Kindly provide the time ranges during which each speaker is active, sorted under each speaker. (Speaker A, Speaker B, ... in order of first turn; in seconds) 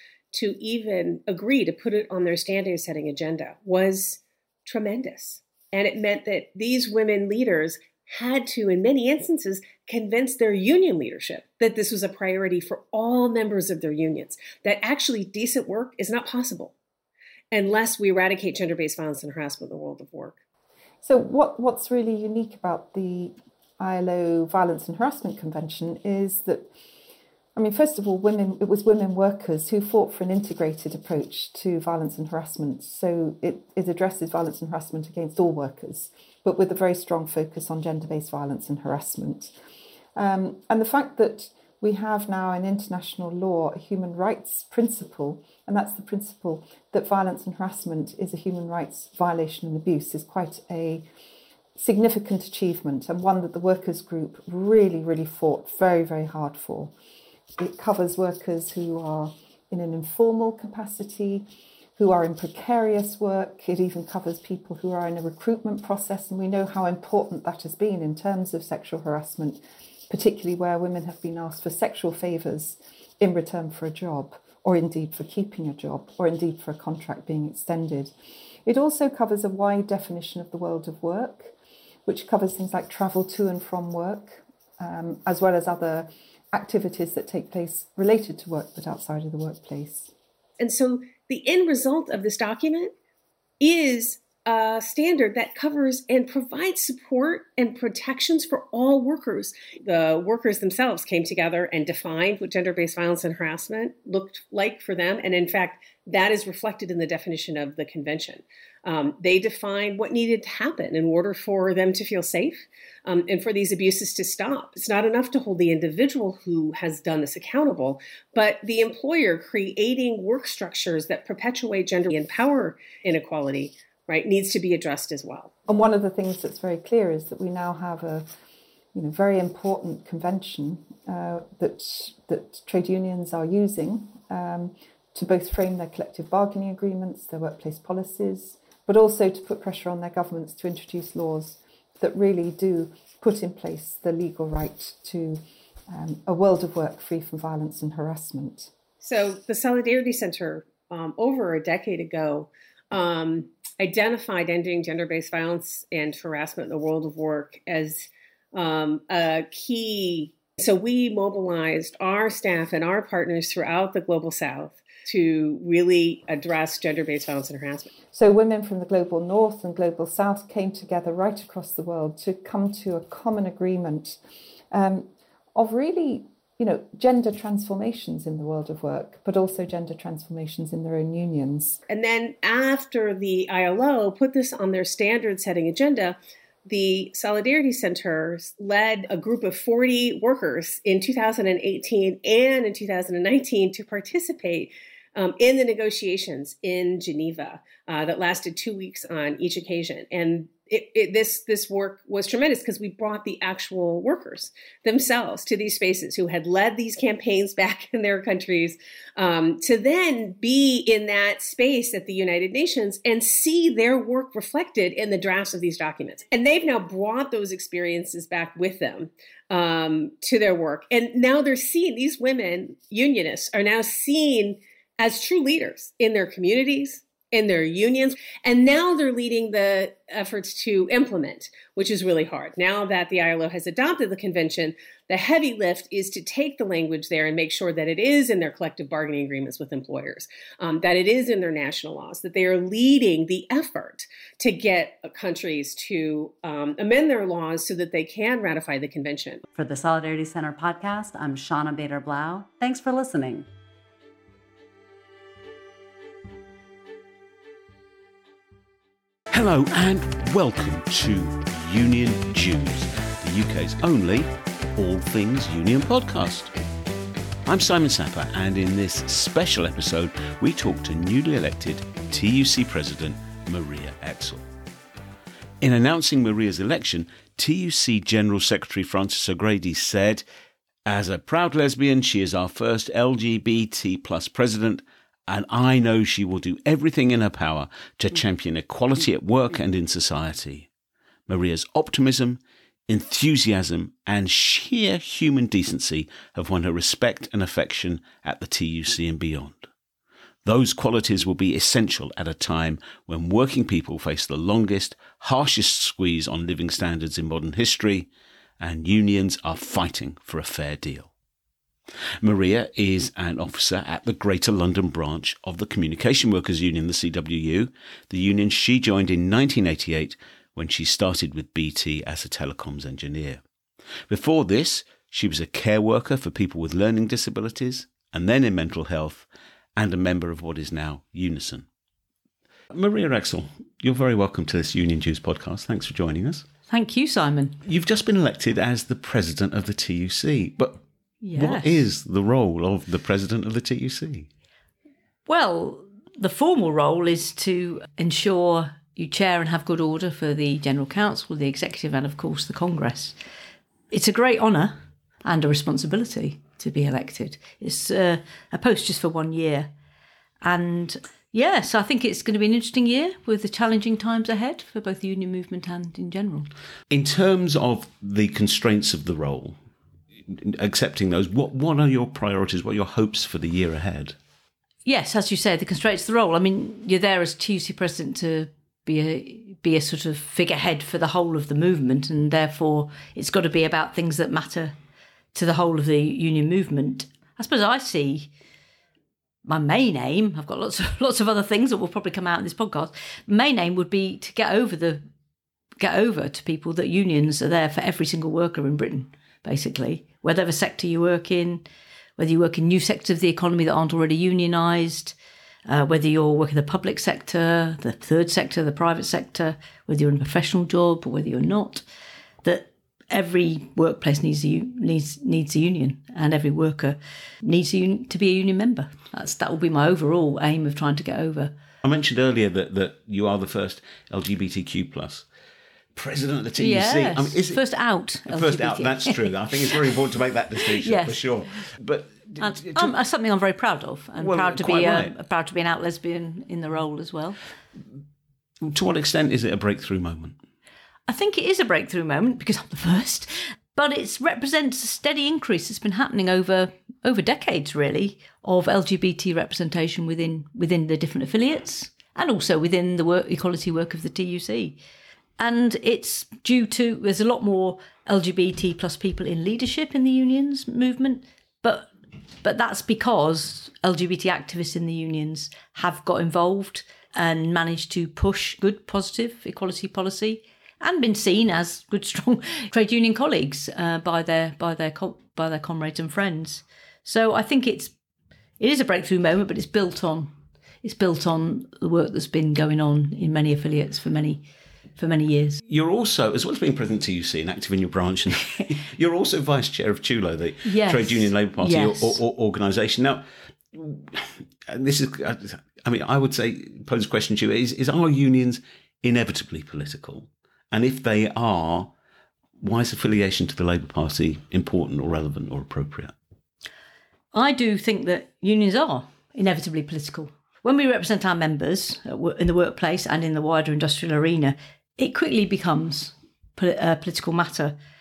Speaker A: 0.3-16.8, 17.5-20.4, 90.6-92.9, 93.6-125.5, 149.0-167.9, 181.9-249.4
Speaker B: 21.0-26.7, 27.6-39.6, 40.2-51.1, 51.8-57.0, 57.6-78.1, 78.7-81.5, 82.1-90.1, 125.7-128.3, 128.9-148.7, 168.1-181.8
Speaker C: 249.5-253.5
Speaker D: 259.3-266.5, 267.5-274.5, 275.6-280.2, 280.9-290.7, 291.3-299.7, 300.4-311.1, 312.2-323.4, 324.1-331.7, 332.7-336.5, 337.6-340.8, 341.3-344.3, 366.9-369.6, 370.3-374.2, 421.8-425.3, 425.9-427.7, 428.2-432.9, 434.2-435.1, 438.7-440.4, 485.6-501.9, 502.6-506.1
Speaker E: 336.7-337.6, 341.2-341.9, 345.3-353.2, 353.9-359.7, 360.4-366.5, 374.9-384.8, 385.3-388.3, 389.4-395.0, 395.8-401.7, 402.2-405.2, 405.7-411.8, 412.4-421.6, 426.6-429.8, 430.7-431.6, 432.4-437.4, 441.1-454.8, 455.4-461.9, 462.4-478.0, 478.6-484.5, 485.0-485.6, 490.6-492.2, 507.3-517.8